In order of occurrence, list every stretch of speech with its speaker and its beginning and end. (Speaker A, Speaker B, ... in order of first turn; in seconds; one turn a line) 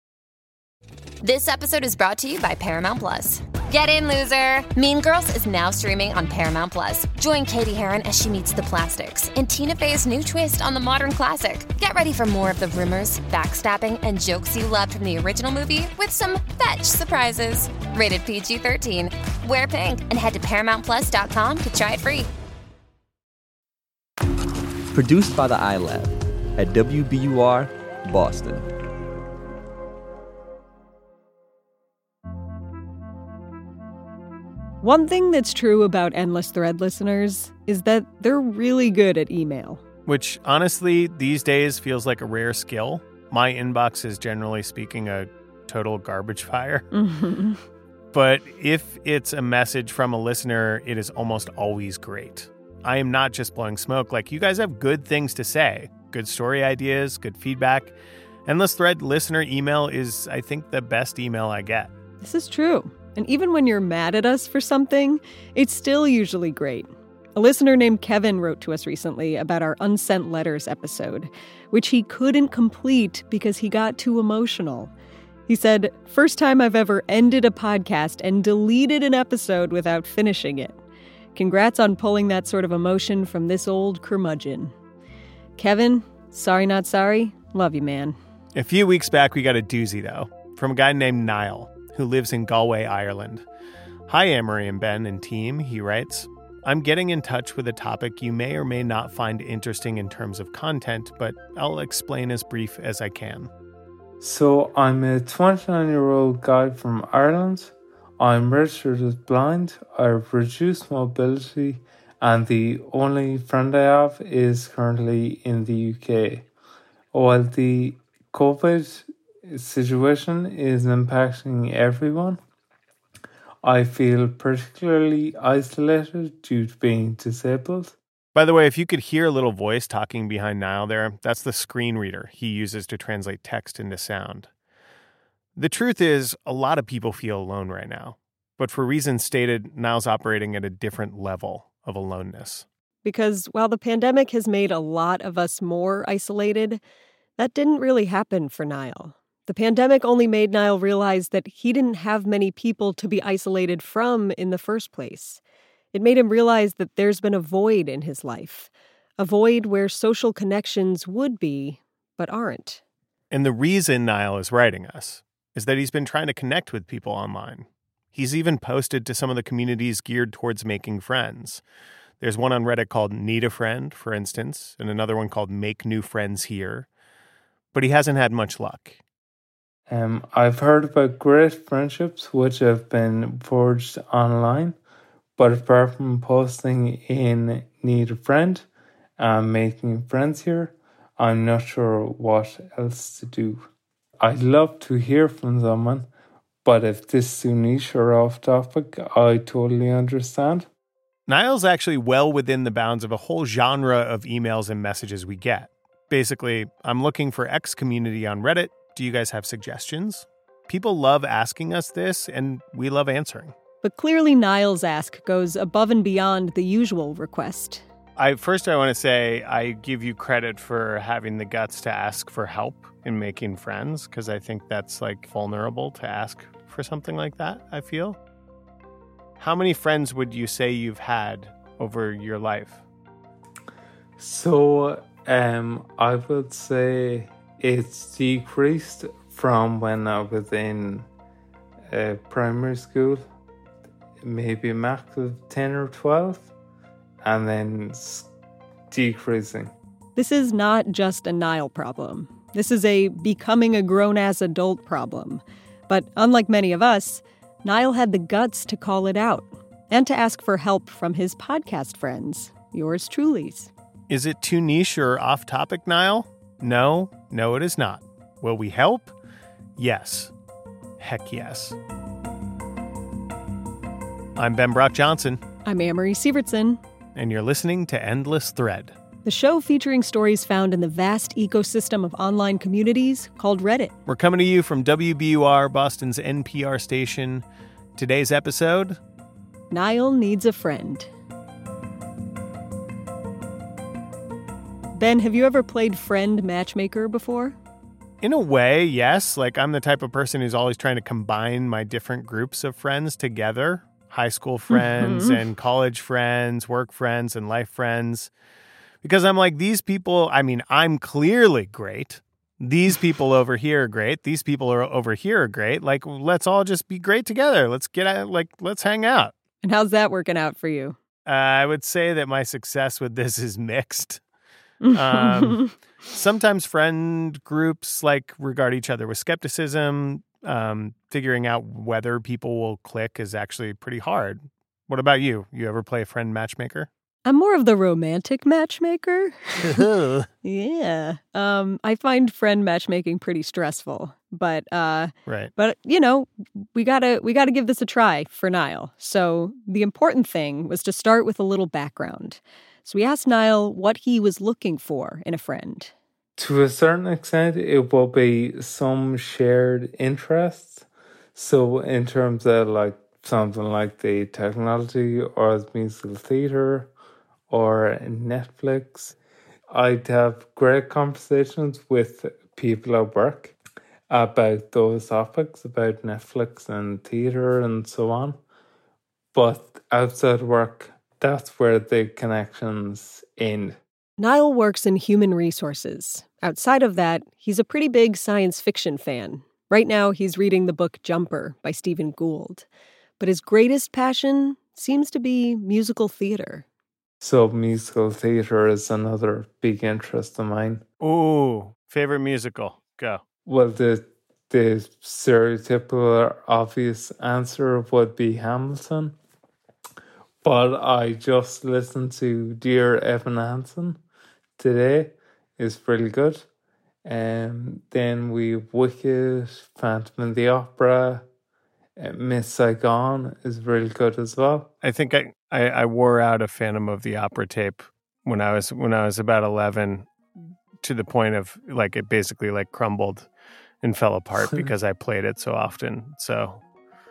Speaker A: 1.2-22.3
Speaker B: 24.9-28.6
Speaker C: 34.8-39.8
Speaker D: 40.0-46.9
Speaker C: 46.9-47.6
Speaker D: 48.1-57.9
Speaker D: 58.5-61.9
Speaker C: 62.2-74.9
Speaker C: 75.5-80.8
Speaker C: 81.3-84.7
Speaker C: 85.6-88.2
Speaker D: 88.5-93.4
Speaker D: 94.1-103.5
Speaker E: 104.2-116.5
Speaker E: 117.1-122.4
Speaker E: 123.6-128.0
Speaker D: 128.3-134.5
Speaker D: 135.6-142.7
Speaker C: 143.0-146.8
Speaker C: 147.4-155.4
Speaker C: 155.9-162.8
Speaker D: 163.3-171.6
Speaker D: 172.2-176.9
Speaker D: 177.7-179.0
Speaker E: 179.9-184.8
Speaker E: 185.4-188.7
Speaker E: 189.2-193.7
Speaker E: 194.2-196.1
Speaker E: 196.6-200.7
Speaker D: 201.3-213.5
Speaker C: 213.8-217.8
Speaker D: 218.2-228.2
Speaker D: 229.4-232.8
Speaker E: 234.2-241.1
Speaker E: 241.9-243.3
Speaker E: 244.2-246.5
Speaker E: 247.2-248.3
Speaker E: 248.9-249.7
Speaker C: 250.2-263.7
Speaker D: 264.1-269.1
Speaker D: 269.8-270.3
Speaker D: 271.0-271.8
Speaker D: 274.4-275.4
Speaker C: 275.6-276.8
Speaker D: 277.1-278.9
Speaker C: 279.2-283.9
Speaker D: 284.1-287.4
Speaker D: 288.0-289.0
Speaker C: 289.7-291.1
Speaker C: 294.9-297.6
Speaker D: 298.2-308.3
Speaker C: 304.7-305.4
Speaker D: 309.0-319.3
Speaker C: 319.6-321.0
Speaker D: 321.2-324.2
Speaker C: 324.8-325.7
Speaker D: 324.9-336.9
Speaker C: 337.2-339.8
Speaker D: 339.6-340.3
Speaker C: 340.4-355.9
Speaker D: 345.3-345.5
Speaker E: 356.4-366.9
Speaker E: 367.5-369.1
Speaker E: 369.7-373.6
Speaker E: 374.1-378.4
Speaker E: 379.3-383.8
Speaker C: 384.2-392.6
Speaker C: 393.2-396.6
Speaker E: 397.2-400.8
Speaker D: 401.0-403.2
Speaker E: 403.4-409.1
Speaker E: 410.4-414.0
Speaker E: 414.6-416.5
Speaker E: 417.0-421.2
Speaker E: 422.0-424.7
Speaker D: 424.8-430.1
Speaker D: 430.8-433.3
Speaker D: 433.8-436.6
Speaker E: 434.4-434.7